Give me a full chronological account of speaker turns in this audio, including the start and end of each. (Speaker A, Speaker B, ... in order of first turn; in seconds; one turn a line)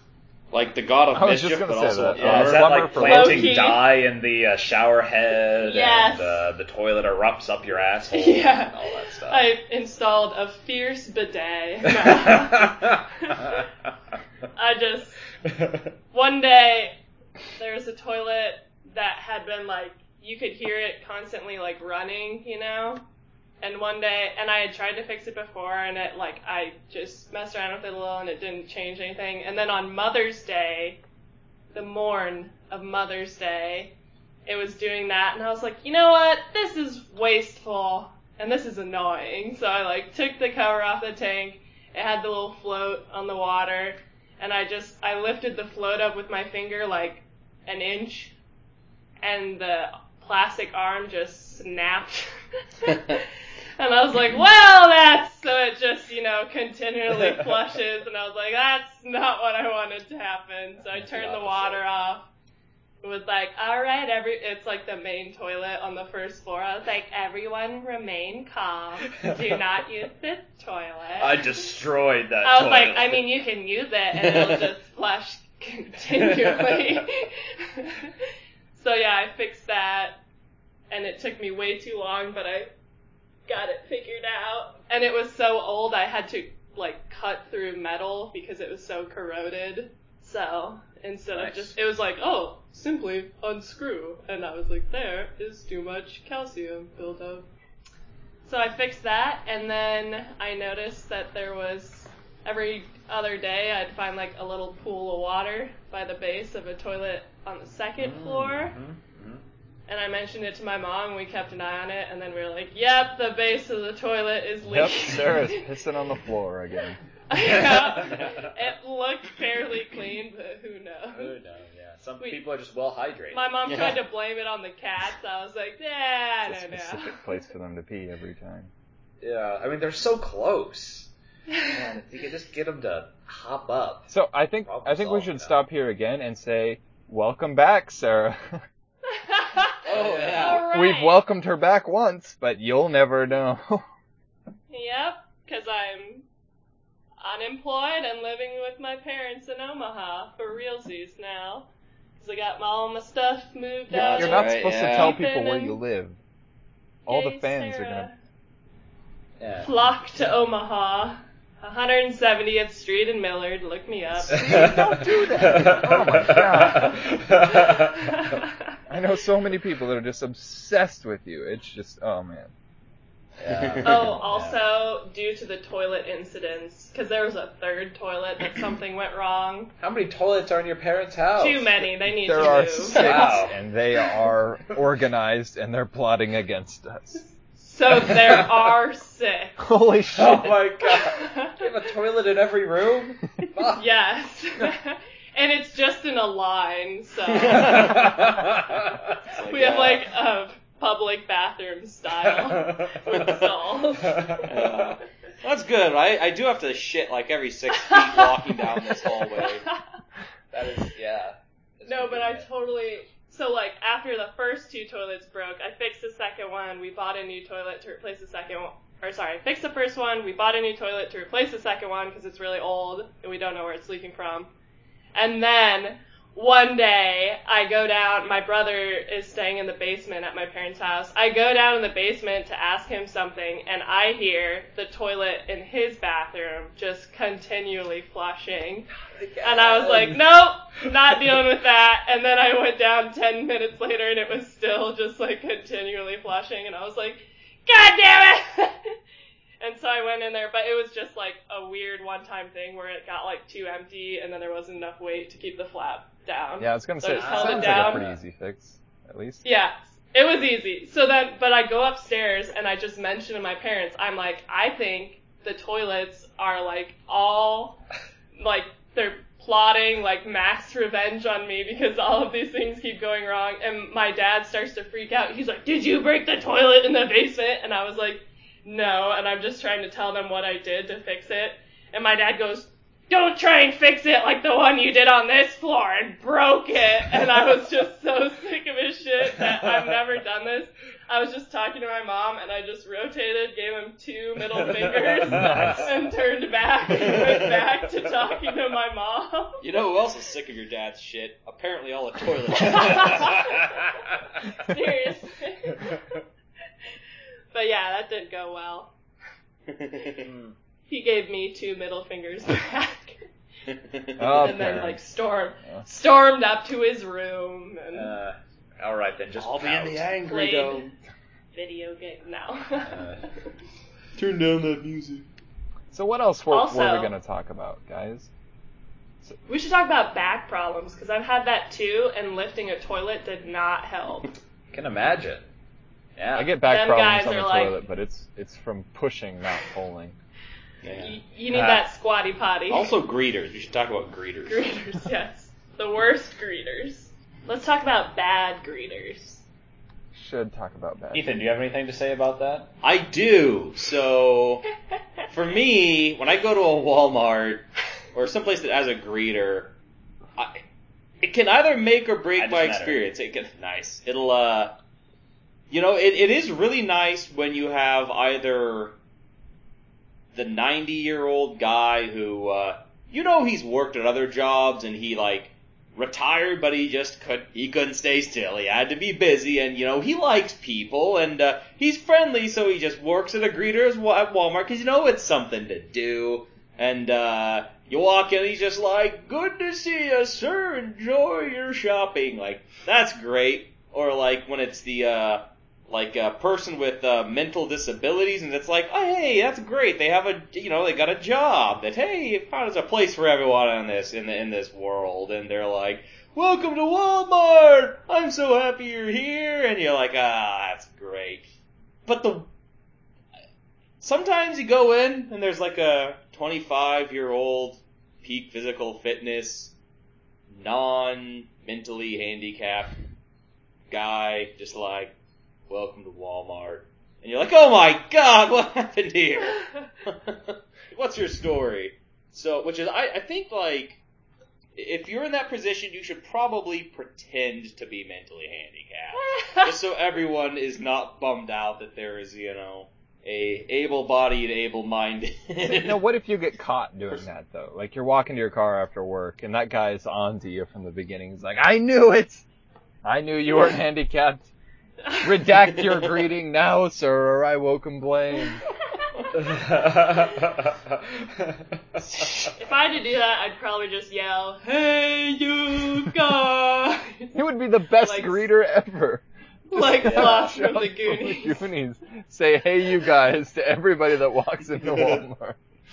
Speaker A: 0.5-2.9
Speaker B: 1.1-3.6
Speaker C: 2.1-9.5
Speaker D: 2.9-3.9
Speaker D: 5.6-6.4
Speaker D: 8.1-13.6
Speaker C: 11.9-13.6
Speaker D: 14.5-15.2
Speaker D: 16.1-17.0
Speaker D: 17.6-23.0
Speaker D: 23.6-31.0
Speaker D: 31.7-33.9
Speaker D: 34.5-48.3
Speaker D: 49.2-62.3
Speaker C: 60.9-61.8
Speaker D: 63.0-71.8
Speaker C: 71.2-73.2
Speaker D: 72.4-78.1
Speaker D: 78.7-80.2
Speaker D: 80.9-82.7
Speaker D: 83.5-97.5
Speaker C: 91.3-91.8
Speaker D: 98.4-108.8
Speaker C: 108.0-109.4
Speaker D: 109.9-115.7
Speaker B: 114.6-117.0
Speaker D: 117.3-121.3
Speaker C: 117.5-118.5
Speaker C: 121.1-123.5
Speaker D: 123.3-127.2
Speaker A: 123.7-124.0
Speaker B: 126.4-128.7
Speaker C: 129.2-134.1
Speaker B: 134.1-138.6
Speaker C: 134.6-135.6
Speaker D: 139.1-141.2
Speaker A: 139.8-140.7
Speaker C: 139.9-140.7
Speaker B: 140.7-143.8
Speaker D: 144.7-146.2
Speaker D: 147.2-155.8
Speaker B: 153.9-156.2
Speaker A: 154.0-155.2
Speaker B: 157.1-158.1
Speaker D: 157.1-158.1
Speaker C: 159.4-159.7
Speaker D: 159.6-164.7
Speaker B: 164.2-167.1
Speaker C: 164.3-168.2
Speaker D: 167.5-168.6
Speaker B: 168.9-172.5
Speaker C: 173.4-174.6
Speaker A: 173.5-174.0
Speaker D: 173.8-179.7
Speaker C: 179.8-181.7
Speaker D: 181.3-183.5
Speaker B: 182.1-187.3
Speaker C: 182.9-183.6
Speaker D: 187.6-189.7
Speaker B: 189.6-190.6
Speaker C: 190.1-193.8
Speaker D: 190.8-191.6
Speaker D: 193.7-198.0
Speaker A: 197.4-198.1
Speaker C: 197.6-199.0
Speaker A: 199.3-200.1
Speaker D: 199.5-204.5
Speaker C: 202.4-203.4
Speaker C: 204.0-204.9
Speaker A: 204.4-209.6
Speaker D: 207.7-209.8
Speaker C: 210.5-212.5
Speaker D: 211.8-224.5
Speaker D: 225.1-238.9
Speaker C: 239.1-240.2
Speaker D: 239.4-248.9
Speaker D: 249.6-258.1
Speaker B: 256.6-259.4
Speaker C: 257.1-258.1
Speaker D: 259.4-267.8
Speaker D: 268.4-299.6
Speaker B: 295.3-295.9
Speaker C: 295.5-295.8
Speaker A: 299.6-303.8
Speaker D: 302.6-303.8
Speaker D: 304.4-306.1
Speaker D: 307.5-308.9
Speaker A: 309.7-310.3
Speaker C: 310.2-310.5
Speaker D: 310.9-313.2
Speaker A: 313.7-314.3
Speaker B: 314.2-315.0
Speaker D: 314.3-318.1
Speaker C: 317.9-320.1
Speaker A: 319.4-320.9
Speaker D: 320.2-320.9
Speaker D: 321.5-323.0
Speaker C: 322.8-323.2
Speaker A: 324.1-325.2
Speaker B: 325.9-328.3
Speaker D: 326.5-327.1
Speaker D: 329.5-334.3
Speaker C: 334.7-335.5
Speaker C: 336.1-336.5
Speaker B: 336.3-340.1
Speaker D: 336.6-337.8
Speaker A: 340.8-341.8
Speaker D: 341.0-342.9
Speaker A: 342.7-344.8
Speaker D: 344.5-349.4
Speaker B: 350.1-351.4
Speaker C: 351.1-352.7
Speaker A: 352.8-354.6
Speaker A: 355.3-359.7
Speaker A: 360.4-360.6
Speaker A: 361.2-364.8
Speaker C: 362.4-363.1
Speaker A: 365.7-368.9
Speaker A: 370.3-411.5
Speaker A: 412.1-412.5
Speaker A: 414.0-419.7
Speaker A: 420.5-422.9
Speaker A: 423.9-425.1
Speaker A: 425.7-434.0
Speaker A: 434.8-446.0
Speaker D: 439.3-439.7
Speaker B: 445.6-452.4
Speaker B: 453.0-454.5
Speaker B: 455.2-458.6
Speaker C: 459.3-461.6
Speaker A: 462.2-462.4
Speaker D: 462.5-467.4
Speaker B: 467.3-475.6
Speaker D: 468.0-468.5
Speaker D: 469.7-471.6
Speaker C: 470.0-470.5